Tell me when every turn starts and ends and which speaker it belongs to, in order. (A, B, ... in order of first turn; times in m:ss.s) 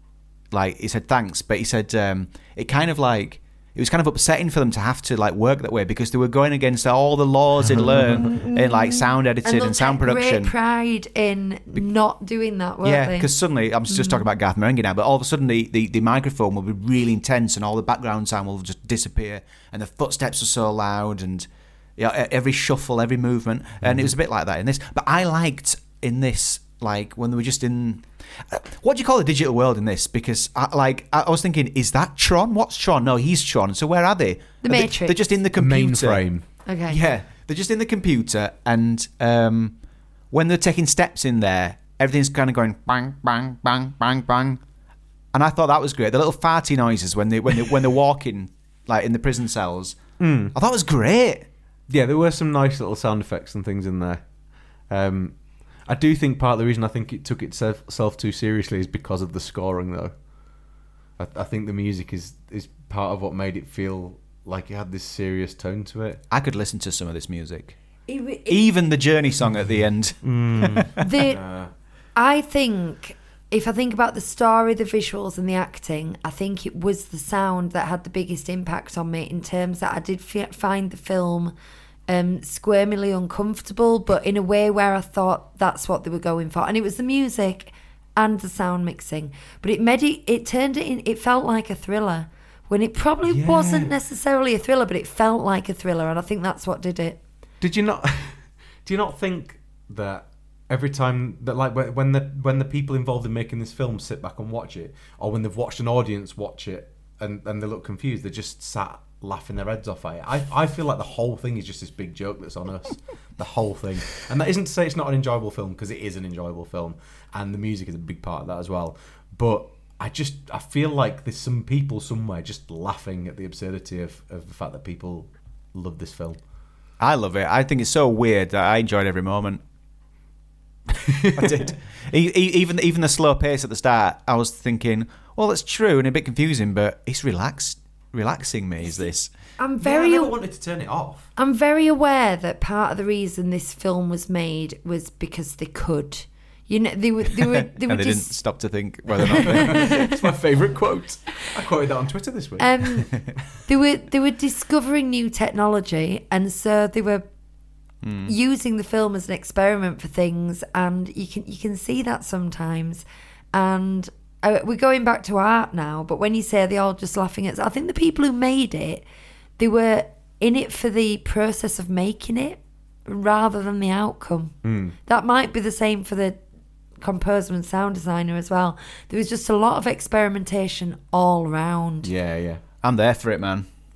0:00.5-0:10.5 A
0:08.2-0:13.3 B
0:12.8-0:39.8 A
0:13.9-0:14.2 B
0:23.8-0:24.1 C
0:34.6-0:35.2 B
0:35.5-0:36.4 C
0:36.6-0:37.0 B
0:40.3-0:44.6 A
0:45.3-0:50.0 A
0:50.2-0:50.5 C
0:50.5-0:51.5 A
0:51.9-0:54.2 C
0:54.9-1:00.1 C
1:01.2-1:06.2 C
1:06.3-1:07.8 A
1:08.1-1:08.6 B
1:08.5-1:11.0 A
1:10.2-1:11.7 C
1:11.0-1:11.4 B
1:12.1-1:21.5 B
1:22.1-1:37.2 B
1:33.2-1:33.9 C
1:37.6-2:06.4 C
2:07.0-2:09.6 A
2:11.0-2:11.7 C
2:11.3-2:19.3 A
2:18.8-2:20.4 B
2:19.8-2:21.3 C
2:21.4-2:28.3 B
2:27.8-2:30.0 A
2:29.4-2:30.1 B
2:29.5-2:33.1 C
2:32.6-2:37.2 B
2:38.0-2:38.3 A
2:38.2-2:49.0 B
2:49.6-2:54.5 B
2:54.6-2:54.9 C
2:55.0-2:56.4 B
2:57.0-3:02.1 B
3:02.0-3:02.6 C
3:02.8-3:03.7 A